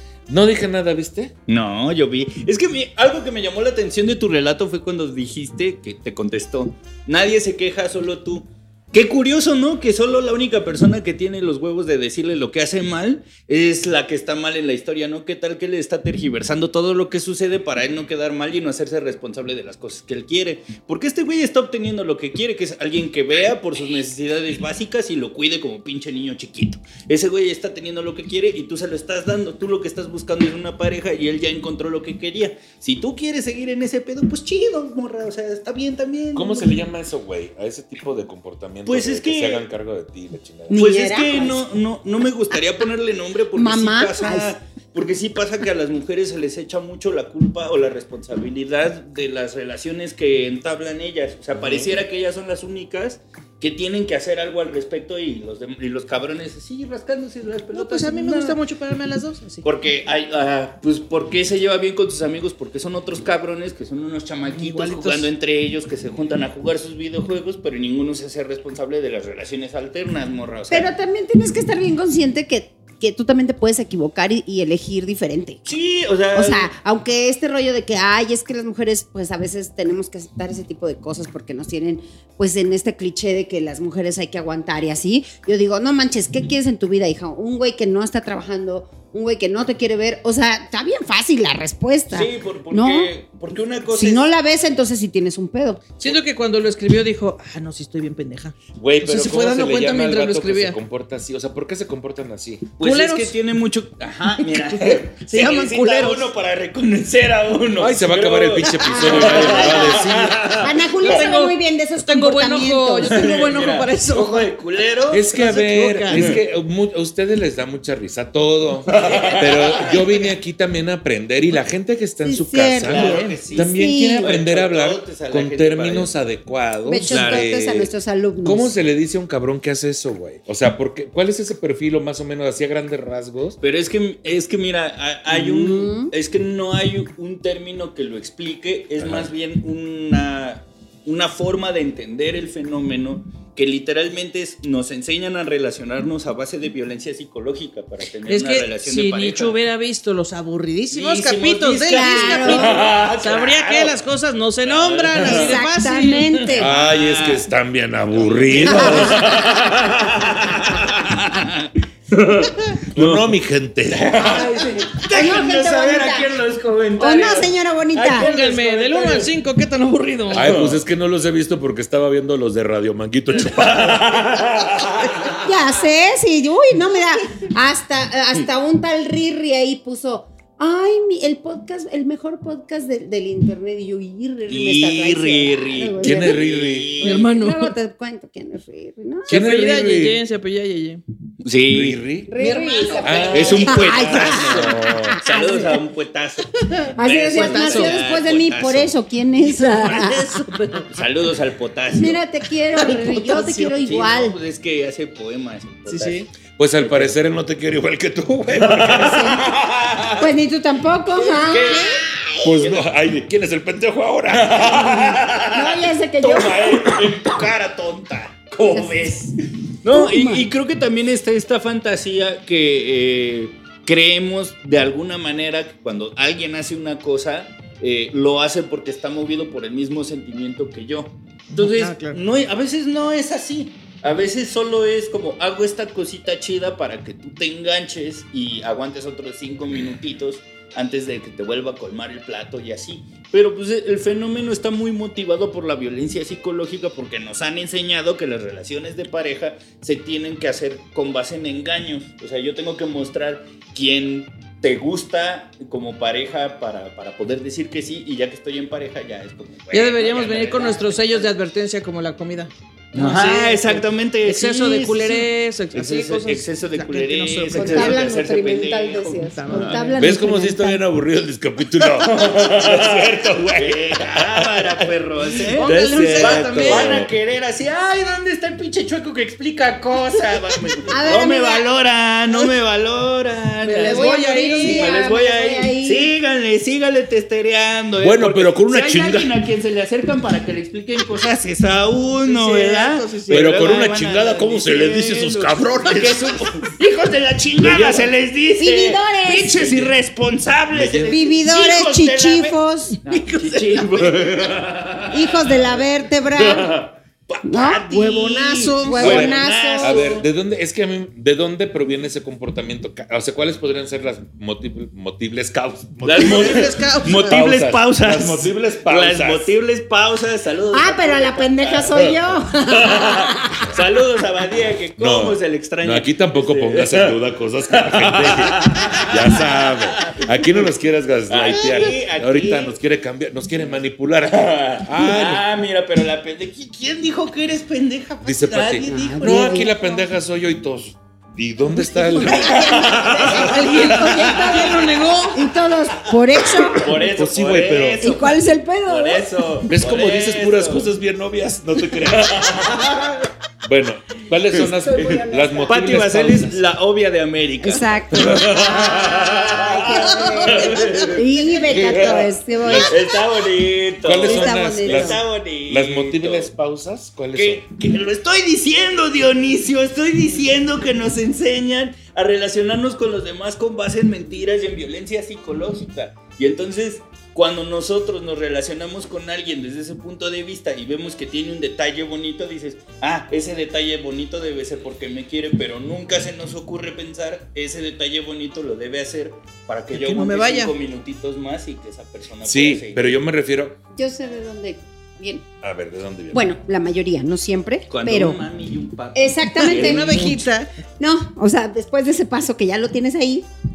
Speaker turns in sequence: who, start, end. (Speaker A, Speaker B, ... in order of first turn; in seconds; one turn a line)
Speaker A: 0.3-1.3
Speaker B: 1.5-36.8
Speaker A: 36.4-40.8
Speaker B: 38.9-39.7
Speaker C: 40.7-41.6
Speaker B: 40.7-58.6
Speaker C: 43.5-44.5
Speaker A: 51.6-51.9
Speaker D: 57.7-59.6
Speaker B: 59.6-70.9
Speaker D: 64.5-65.3
Speaker C: 70.7-75.6
Speaker B: 75.7-76.7
Speaker C: 76.3-93.1
Speaker B: 92.1-94.2
Speaker C: 93.9-95.9
Speaker D: 96.0-100.8
Speaker A: 98.8-102.7
Speaker B: 102.8-111.2
Speaker D: 102.8-103.3
Speaker D: 104.5-106.3
Speaker A: 107.8-110.6
Speaker C: 108.9-113.2
Speaker D: 111.0-114.5
Speaker B: 113.0-115.4
Speaker A: 115.1-127.9
Speaker D: 115.3-116.4
Speaker B: 116.1-116.4
Speaker B: 118.9-120.3
Speaker C: 122.2-124.3
Speaker B: 122.8-126.1
Speaker C: 126.8-128.7
Speaker B: 127.0-127.5
Speaker A: 128.4-133.6
Speaker B: 133.6-149.6
Speaker C: 135.3-136.1
Speaker A: 139.0-139.3
Speaker D: 148.3-156.5
Speaker B: 150.9-154.0
Speaker C: 151.9-152.8
Speaker B: 154.6-155.6
Speaker C: 155.2-156.7
Speaker B: 156.5-157.5
Speaker A: 156.5-159.6
Speaker B: 158.1-163.4
Speaker C: 158.6-159.4
Speaker A: 162.9-164.4
Speaker B: 163.9-169.3
Speaker C: 164.2-166.3
Speaker C: 167.0-168.3
Speaker D: 168.1-170.6
Speaker B: 170.3-170.8
Speaker A: 170.3-174.8
Speaker B: 173.4-175.4
Speaker C: 175.4-186.5
Speaker B: 184.5-187.2
Speaker A: 186.0-187.0
Speaker D: 187.0-187.7
Speaker C: 187.0-189.4
Speaker A: 189.3-190.2
Speaker D: 189.3-191.0
Speaker B: 191.4-192.0
Speaker A: 191.7-192.3
Speaker C: 192.3-195.8
Speaker D: 192.4-193.8
Speaker A: 193.0-195.2
Speaker B: 193.3-200.2
Speaker D: 196.6-198.0
Speaker C: 197.0-200.3
Speaker D: 199.7-200.9
Speaker B: 200.9-202.2
Speaker C: 201.9-204.4
Speaker D: 202.8-203.8
Speaker B: 203.8-206.2
Speaker D: 205.9-206.3
Speaker A: 206.6-209.4
Speaker B: 206.8-207.2
Speaker B: 208.5-210.3
Speaker C: 208.9-209.6
Speaker C: 210.2-212.6
Speaker B: 211.2-212.1
Speaker A: 212.4-215.2
Speaker B: 212.6-212.9
Speaker B: 214.3-261.3
Speaker C: 215.5-217.2
Speaker C: 218.6-219.1
Speaker C: 219.8-220.5
Speaker D: 231.6-232.2
Speaker D: 259.7-268.0
Speaker B: 262.9-270.0
Speaker C: 267.5-270.8
Speaker D: 269.3-270.0
Speaker A: 270.0-274.9
Speaker B: 271.8-310.2
Speaker D: 275.5-277.0
Speaker A: 275.6-277.1
Speaker C: 280.9-281.7
Speaker D: 283.6-285.0
Speaker C: 283.8-286.1
Speaker A: 288.0-289.3
Speaker D: 292.2-293.8
Speaker A: 293.3-296.2
Speaker A: 297.6-298.1
Speaker C: 298.6-299.7
Speaker A: 299.6-299.9
Speaker A: 300.7-301.2
Speaker C: 301.1-303.0
Speaker D: 303.1-304.1
Speaker C: 305.1-306.8
Speaker C: 307.4-310.2
Speaker D: 308.2-309.2
Speaker A: 309.0-319.5
Speaker B: 316.0-327.2
Speaker D: 316.1-317.4
Speaker C: 320.7-323.7
Speaker A: 325.0-335.5
Speaker B: 327.7-330.7
Speaker B: 331.3-332.8
Speaker B: 333.7-339.7
Speaker A: 338.2-343.4
Speaker C: 338.8-340.0
Speaker C: 341.8-347.0
Speaker B: 342.2-344.6
Speaker D: 343.4-345.5
Speaker B: 346.7-350.9
Speaker A: 347.0-348.1
Speaker C: 348.0-349.3
Speaker A: 349.7-352.7
Speaker B: 352.0-353.2
Speaker A: 353.6-356.6
Speaker C: 354.6-356.0
Speaker B: 355.7-366.5
Speaker C: 357.6-363.2
Speaker D: 360.1-361.1
Speaker A: 361.7-363.0
Speaker A: 364.0-367.7
Speaker C: 364.2-365.2
Speaker B: 367.3-393.2
Speaker D: 389.9-390.7
Speaker A: 392.4-393.8
Speaker C: 393.9-395.4
Speaker A: 395.6-396.5
Speaker C: 396.3-398.4
Speaker B: 397.9-400.4
Speaker C: 399.1-400.2
Speaker D: 399.6-400.7
Speaker C: 401.0-403.5